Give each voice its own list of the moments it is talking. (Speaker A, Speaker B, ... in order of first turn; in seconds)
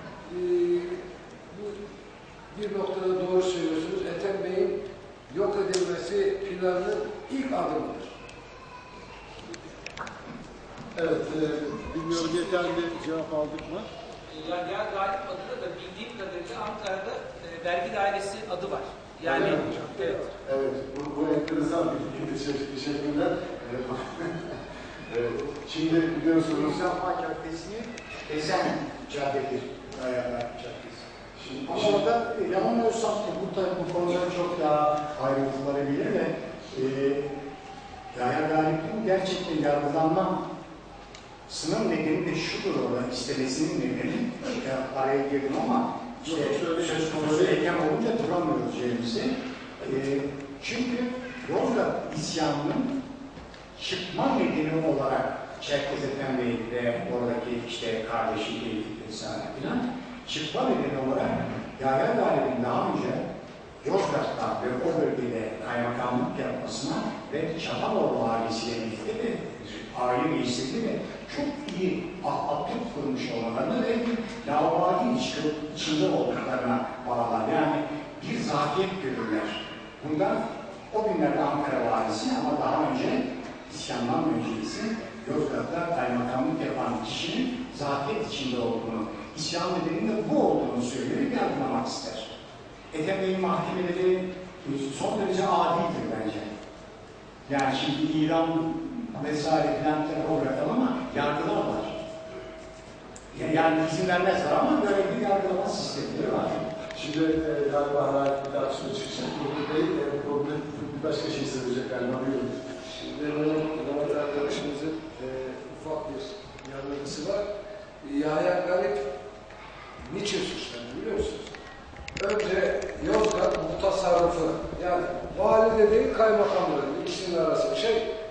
Speaker A: 0.2-1.0, 1.5-1.8, 2.5-4.8, 5.3-8.1, 112.8-117.4, 118.0-119.0, 120.0-121.5, 122.2-128.0
Speaker B: 10.9-13.9, 19.3-19.9, 20.4-24.5, 25.1-26.8, 31.4-31.9, 46.2-47.6, 106.9-112.6
Speaker C: 12.2-12.7, 14.3-20.2
Speaker D: 26.4-31.1, 31.6-37.3, 38.1-40.4, 41.5-52.9, 53.8-63.2, 63.8-92.3, 92.9-96.5, 97.5-102.0, 103.3-106.6